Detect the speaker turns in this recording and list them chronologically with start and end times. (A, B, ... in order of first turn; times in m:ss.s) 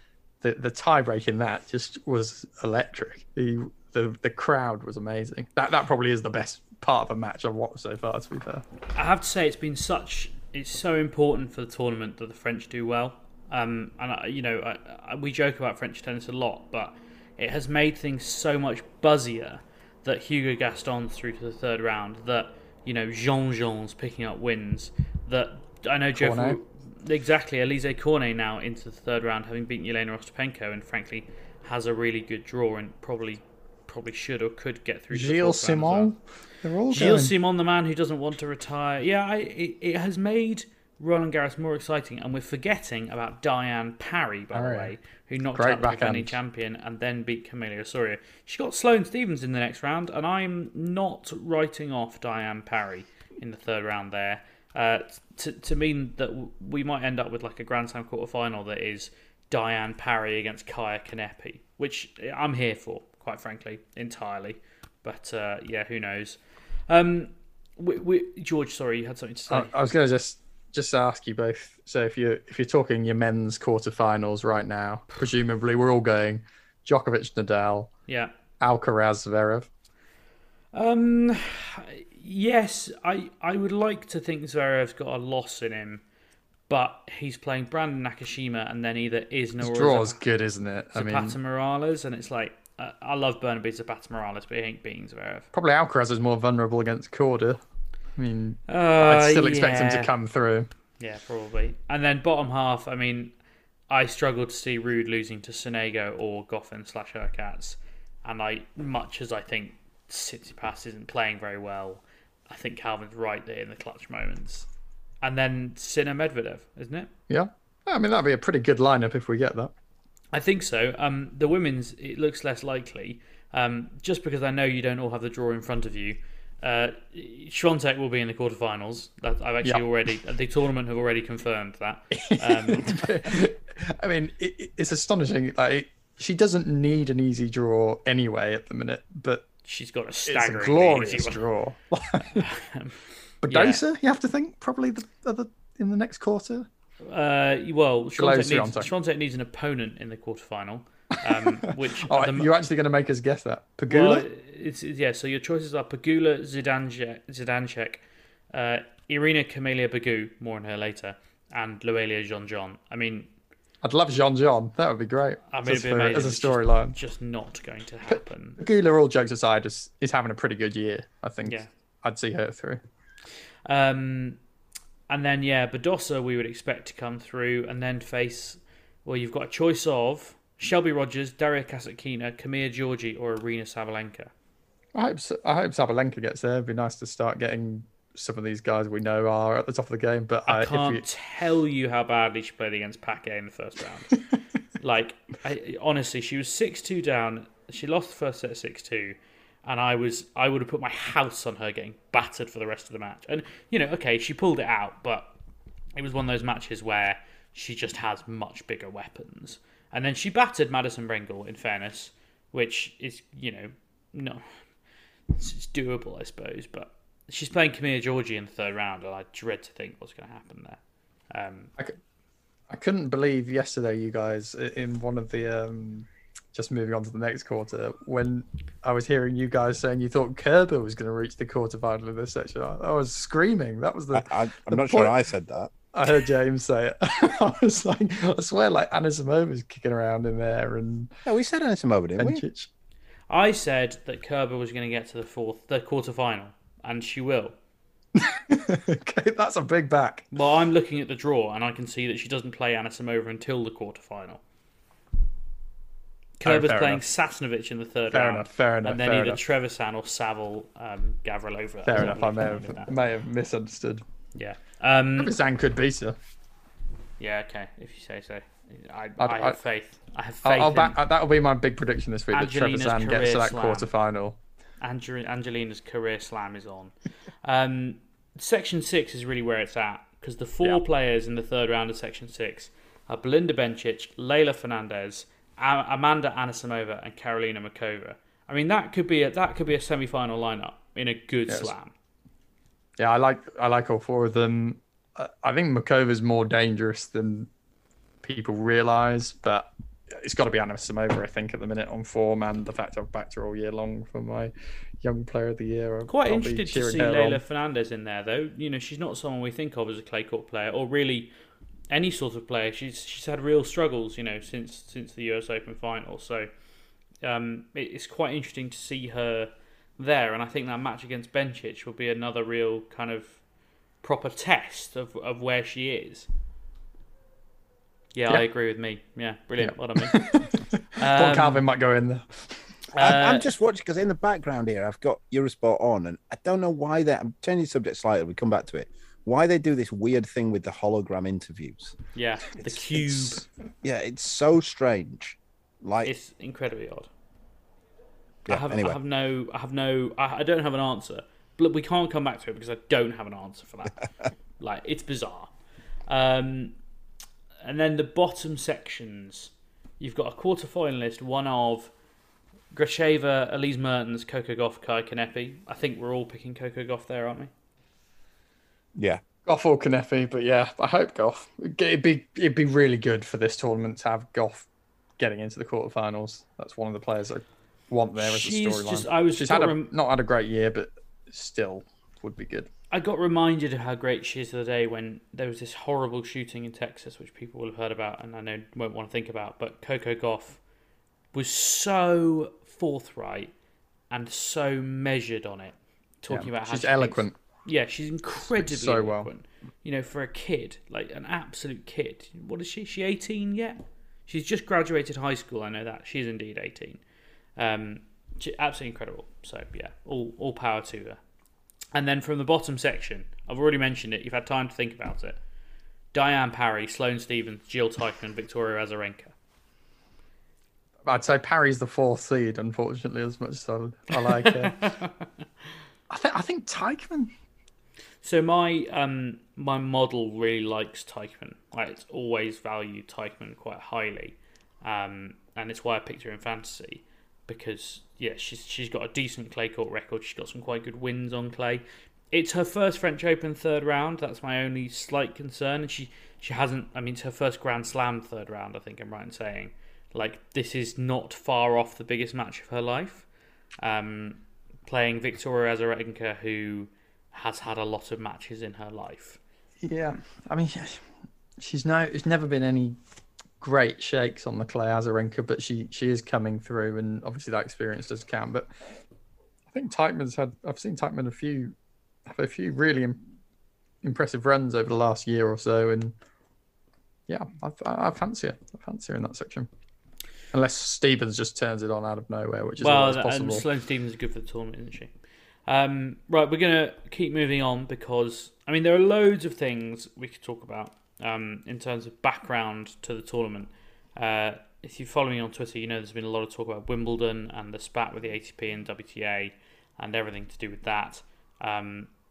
0:00.4-0:08.6 A
0:09.0-0:36.1 B
0:26.2-0:26.6 A
0:35.1-0:37.3 A
0:36.9-1:09.7 B
0:44.5-0:44.9 A
0:45.6-0:46.4 A
1:09.5-1:17.9 A
1:18.6-1:19.7 A
1:20.7-1:26.0 B
1:26.7-1:30.2 B
1:29.6-1:31.4 A
1:30.9-1:35.5 B
1:35.5-1:37.6 A
1:38.2-1:40.7 A
1:38.7-1:40.1 B
1:41.0-1:43.3 B
1:43.9-1:54.7 B
1:55.2-1:57.1 B
1:57.3-1:59.7 A
2:00.3-2:13.1 B
2:12.1-2:19.4 A
2:19.7-2:21.4 B
2:20.3-2:22.4 A
2:22.3-2:23.8 B
2:23.4-2:26.7 A
2:27.0-2:32.5 B
2:28.2-2:28.9 A
2:31.3-2:34.3 A
2:33.9-2:38.0 B
2:38.5-2:43.3 B
2:43.8-2:47.0 A
2:45.5-2:48.6 B
2:48.1-2:52.8 A
2:53.7-2:54.4 B
2:55.1-3:04.3 B
3:05.0-3:11.0 A
3:10.5-3:14.2 B
3:14.8-3:25.3 B
3:26.0-3:34.4 B
3:35.3-3:40.8 B
3:41.3-3:41.7 B
3:42.7-3:55.1 A
3:54.1-3:55.7 C
3:55.9-4:01.1 A
4:01.3-4:02.4 C
4:02.2-4:02.7 A
4:03.3-4:07.5 B
4:08.2-4:10.3 A
4:10.3-4:14.4 B
4:16.4-4:22.9 B
4:16.4-4:17.0 A
4:18.1-4:19.4 A
4:21.9-4:24.0 A
4:24.4-4:25.4 B
4:25.2-4:26.2 A
4:27.2-4:31.0 B
4:29.2-4:29.6 A
4:30.4-4:34.4 A
4:32.3-4:33.9 B
4:34.8-4:36.9 B
4:37.4-4:51.9 B
4:53.0-4:57.5 A
4:58.2-5:07.4 A
5:06.1-5:11.3 B
5:11.9-5:16.5 B
5:17.2-5:23.4 B
5:24.0-5:26.3 B
5:28.1-5:31.6 B
5:29.6-5:32.8 A
5:33.0-5:33.5 B
5:33.0-5:42.0 C
5:42.1-5:43.4 B
5:42.6-5:46.1 C
5:46.0-5:47.1 B
5:48.4-5:49.0 C
5:48.5-5:54.0 B
5:54.6-5:55.5 B
5:56.1-5:56.7 B
5:57.6-6:01.9 B
6:02.7-6:07.5 B
6:09.0-6:09.2 C
6:09.4-6:14.7 A
6:15.2-6:22.7 A
6:18.2-6:19.9 B
6:22.9-6:30.6 B
6:31.3-6:33.5 B
6:34.1-6:47.0 B
6:36.3-6:37.4 A
6:38.5-6:39.3 A
6:47.6-6:51.2 B
6:51.9-6:55.4 B
6:56.1-6:59.3 B
7:01.0-7:05.0 A
7:04.1-7:05.2 B
7:06.1-7:07.3 A
7:08.2-7:33.3 B
7:33.8-7:39.4 B
7:39.8-7:43.0 A
7:43.6-7:48.7 A
7:49.7-7:51.7 A
7:52.3-7:53.2 A
7:54.0-7:56.1 A
7:57.3-7:59.7 A
8:00.5-8:03.7 A
8:02.8-8:05.1 B
8:05.7-8:22.1 B